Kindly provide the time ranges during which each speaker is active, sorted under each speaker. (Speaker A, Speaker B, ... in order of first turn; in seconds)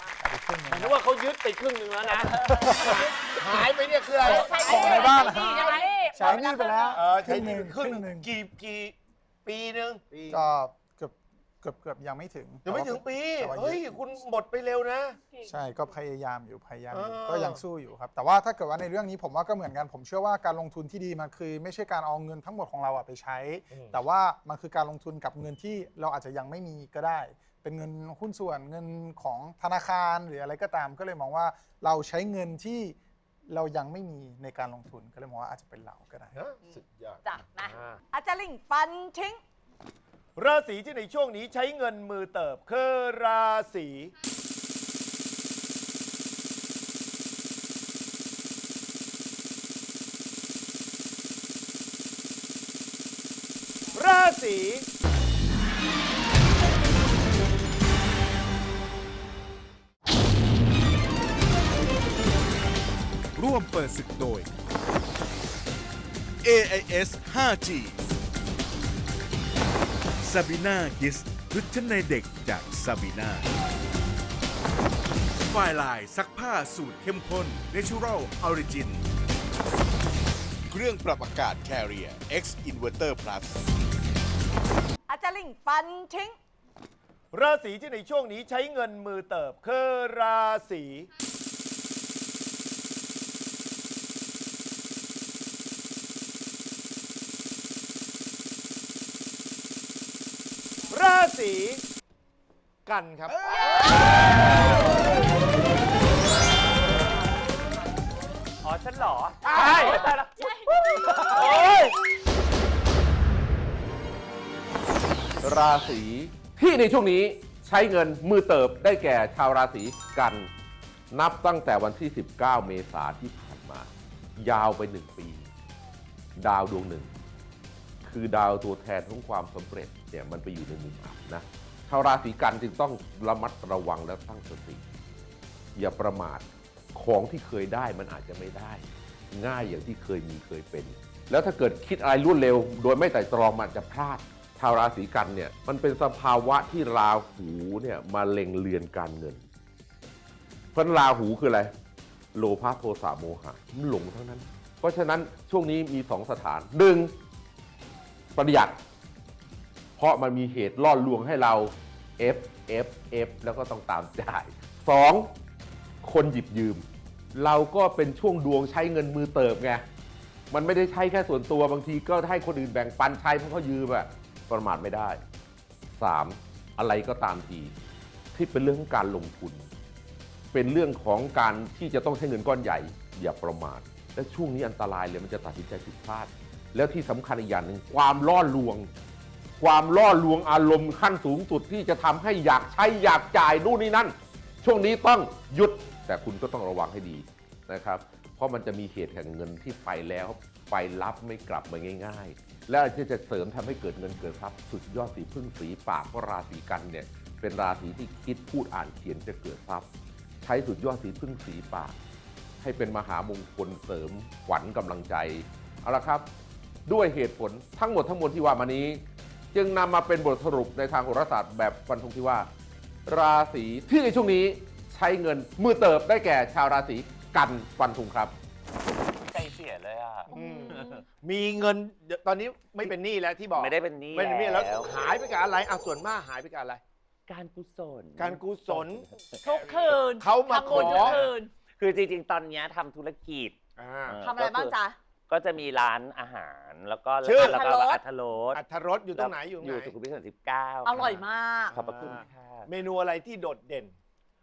Speaker A: 0.2-1.0, 2.5-3.0, 4.2-8.3, 10.3-14.0, 15.4-33.0, 33.5-36.4
Speaker B: 0.7-5.8, 6.9-10.0, 12.7-15.2, 16.9-17.6, 23.7-24.0, 36.3-38.0, 40.4-44.1, 54.0-54.9, 87.3-91.1, 100.9-101.8, 102.9-103.4, 109.5-110.0, 111.4-111.9, 230.3-236.8, 238.2-239.1, 240.2-241.3, 243.8-244.2, 247.2-247.6, 248.5-249.9, 251.7-253.9
Speaker C: 4.2-7.0, 37.2-39.4, 85.1-86.4, 109.8-111.6, 230.3-231.0, 239.4-241.5, 244.2-245.0, 247.3-248.0, 250.8-251.8
Speaker D: 63.4-64.4, 66.4-68.0, 70.2-73.5, 75.5-79.0, 80.7-83.6
Speaker E: 108.6-111.7, 229.2-231.0, 233.5-234.9, 237.3-239.3, 240.7-243.6, 244.1-244.8, 245.3-248.6, 249.2-252.7
Speaker F: 109.5-109.9, 115.4-120.5, 121.1-125.5, 126.4-127.1, 128.0-134.8, 135.8-136.4, 136.9-149.4, 150.8-151.7, 152.3-157.1, 158.4-158.8, 160.0-165.2, 166.0-166.8, 167.3-169.8, 170.5-175.2, 175.9-177.7, 178.3-179.7, 180.5-188.9, 189.6-209.9, 210.4-212.0, 212.6-216.2, 216.9-219.0, 219.5-222.5, 223.1-228.3